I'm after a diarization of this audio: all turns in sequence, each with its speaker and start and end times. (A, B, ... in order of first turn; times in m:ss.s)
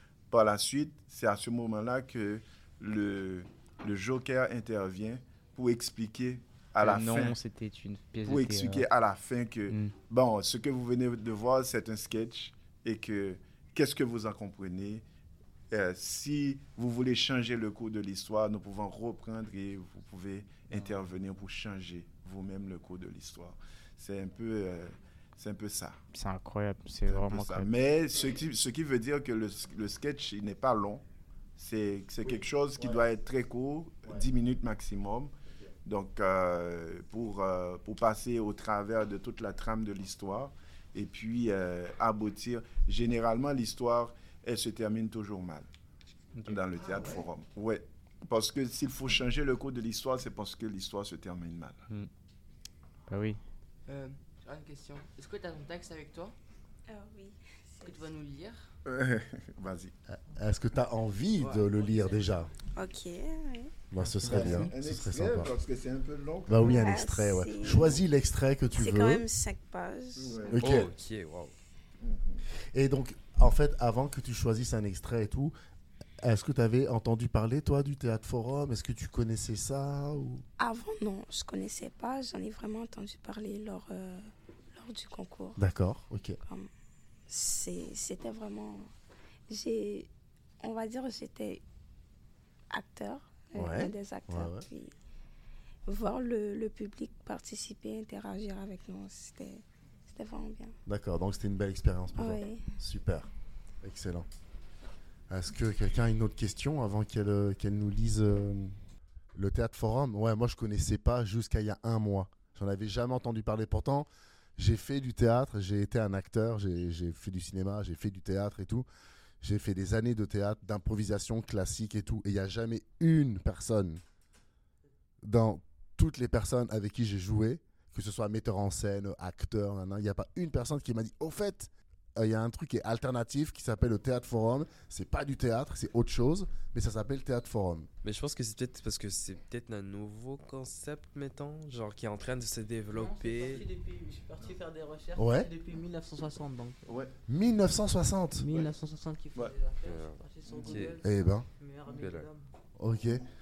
0:00.3-0:07.4 A
0:06.8-0:08.8 B
0:08.2-0:15.0 A
0:09.7-0:09.9 B
0:15.7-0:26.0 A
0:26.1-0:27.7 B
0:27.0-0:31.0 A
0:31.6-0:35.3 A
0:35.8-0:45.7 A
0:46.3-0:46.6 B
0:46.4-0:51.8 A
0:53.1-0:53.4 B
0:53.9-0:56.4 C
0:56.9-0:58.1 D
0:57.8-0:58.7 C
0:58.8-0:59.9 A
1:00.1-1:02.5 E
1:01.4-1:02.5 C
1:02.7-1:03.7 D
1:03.9-1:05.5 E
1:04.0-1:04.7 F
1:04.3-1:06.7 A
1:06.5-1:09.2 E
1:06.6-1:08.0 D
1:08.8-1:10.6 D
1:10.2-1:10.6 A
1:10.5-1:10.9 E
1:10.6-1:11.5 G
1:12.0-1:12.4 A
1:12.7-1:15.5 E
1:16.2-1:20.4 E
1:20.6-1:25.6 D
1:25.6-1:26.4 E
1:26.4-1:26.7 D
1:27.3-1:28.9 D
1:29.5-1:30.1 D
1:30.6-1:31.6 D
1:32.7-1:34.9 D
1:33.6-1:34.6 E
1:35.8-1:40.7 D
1:40.8-1:43.3 E
1:42.2-1:42.6 D
1:43.8-1:44.3 E
1:45.3-1:48.8 E
1:49.3-1:58.8 E
1:59.4-2:04.0 E
2:05.2-2:17.9 E
2:18.0-2:23.7 G
2:22.9-2:26.9 F
2:25.2-2:25.5 E
2:26.8-2:27.1 A
2:27.3-2:28.5 E
2:28.4-2:32.5 F
2:29.8-2:31.0 G
2:30.4-2:30.8 A
2:31.0-2:31.5 E
2:31.9-2:32.3 G
2:32.8-2:33.2 E